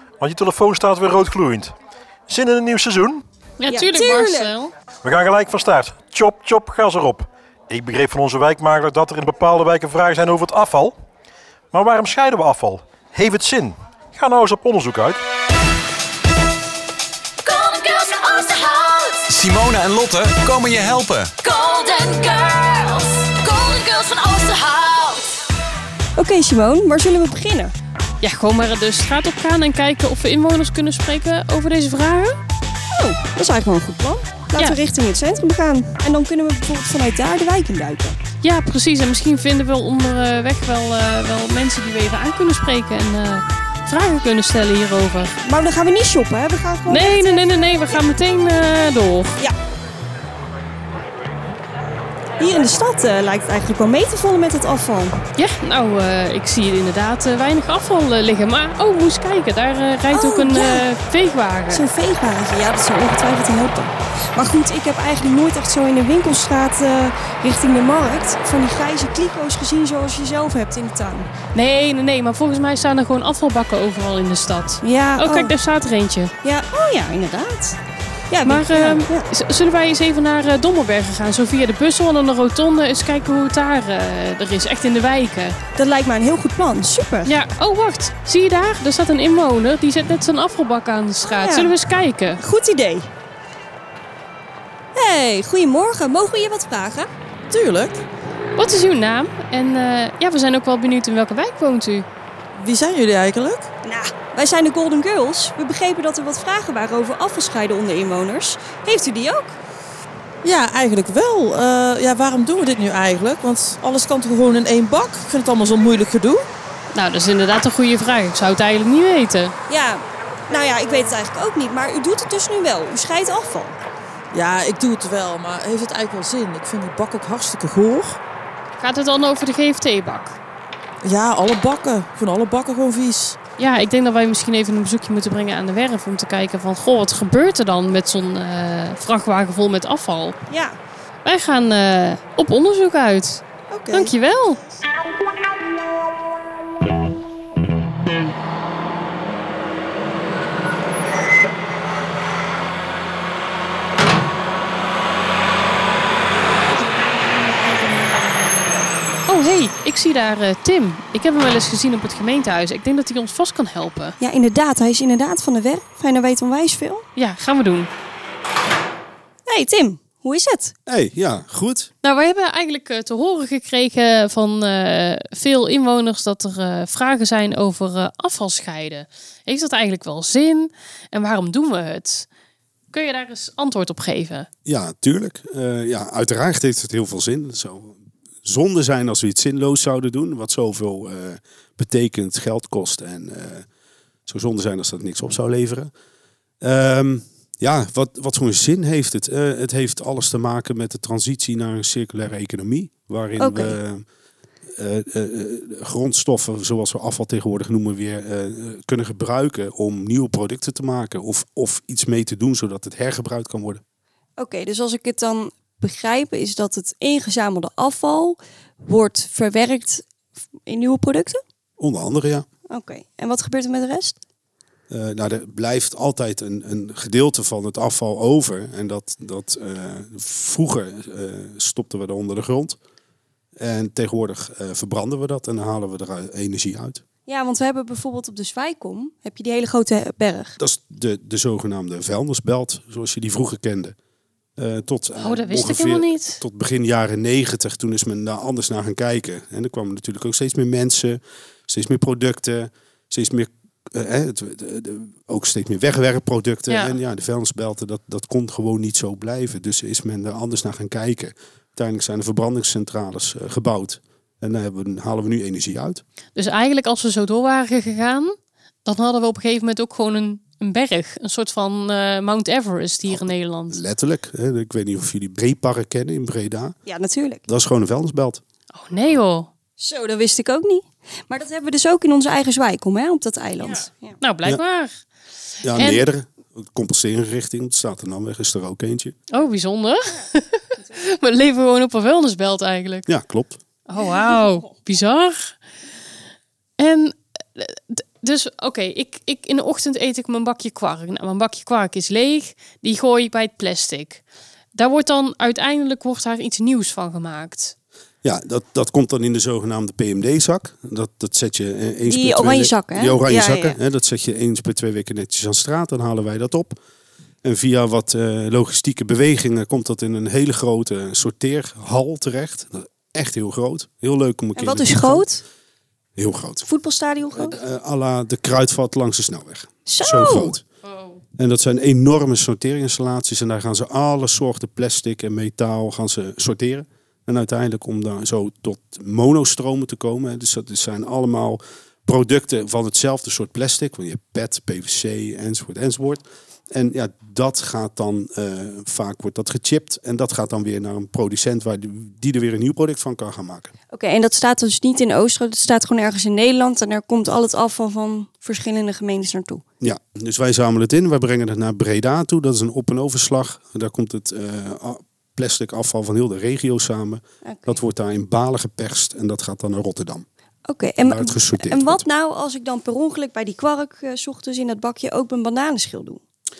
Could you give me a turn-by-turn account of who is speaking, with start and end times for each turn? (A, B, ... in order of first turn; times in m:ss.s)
0:00.2-0:01.7 A
0:02.3-0:03.2 A
0:03.6-0:04.7 B
0:03.7-0:04.6 C
0:05.0-0:11.0 A
0:11.7-0:15.2 A
0:17.4-0:19.4 D
0:19.3-0:21.3 E
0:21.4-0:25.2 D
0:26.2-0:27.7 C
0:28.2-0:32.4 B
0:32.9-0:38.2 C
0:38.4-0:45.3 B
0:45.4-0:48.0 C
0:46.9-0:49.4 B
0:52.4-0:55.2 C
0:55.4-1:01.8 B
1:00.1-1:00.9 C
1:01.7-1:11.3 C
1:11.5-1:16.3 B
1:14.8-1:15.5 C
1:16.4-1:17.8 C
1:18.3-1:19.3 C
1:18.5-1:25.6 B
1:25.8-1:27.3 C
1:27.3-1:32.4 B
1:31.2-1:31.7 C
1:32.4-1:33.1 C
1:35.0-1:37.1 C
1:37.5-1:38.0 F
1:38.6-1:42.1 B
1:42.5-1:43.7 F
1:43.8-1:49.6 C
1:50.4-1:56.5 F
1:56.9-1:59.5 B
1:59.7-2:03.8 C
2:04.3-2:08.2 F
2:08.8-2:10.4 B
2:11.0-2:13.4 F
2:13.6-2:20.4 B
2:20.5-2:20.8 C
2:21.2-2:24.6 B
2:23.7-2:24.1 C
2:39.3-2:44.2 B
2:44.2-2:47.0 C
2:47.2-2:47.9 B
2:49.5-2:50.8 C
2:50.9-2:51.9 G
2:52.0-3:02.3 B
3:02.9-3:04.5 B
3:04.7-3:13.7 G
3:14.3-3:15.9 G
3:16.6-3:24.0 G
3:23.4-3:23.8 C
3:24.8-3:33.8 G
3:34.4-3:40.1 C
3:40.7-3:41.4 C
3:41.8-3:42.5 G
3:42.7-3:44.2 C
3:44.9-3:52.8 G
3:53.6-3:57.0 G
3:57.3-4:00.6 C
4:00.6-4:04.0 G
4:04.6-4:26.0 G
4:05.2-4:06.4 B
4:16.7-4:17.0 B
4:26.4-4:33.8 B
4:33.1-4:36.8 G
4:36.9-4:37.4 C
4:37.5-4:38.4 G
4:38.7-4:39.5 B
4:39.8-4:44.2 C
4:43.6-4:45.0 B
4:45.6-4:49.2 G
4:45.7-4:46.1 B
4:49.3-4:53.1 B
4:53.1-4:53.6 G
4:53.9-4:55.6 B
4:56.8-5:04.2 B
5:04.7-5:07.7 B
5:08.2-5:16.8 G
5:12.1-5:13.8 C
5:17.4-5:25.3 G
5:24.6-5:25.4 C
5:26.2-5:26.7 G
5:26.6-5:27.6 C
5:27.3-5:30.6 G
5:29.9-5:30.6 C
5:30.8-5:31.2 B
5:31.4-5:53.7 G
5:53.9-5:59.6 C
5:59.8-6:10.2 G
6:07.4-6:07.8 C
6:10.7-6:16.2 C
6:11.0-6:12.0 G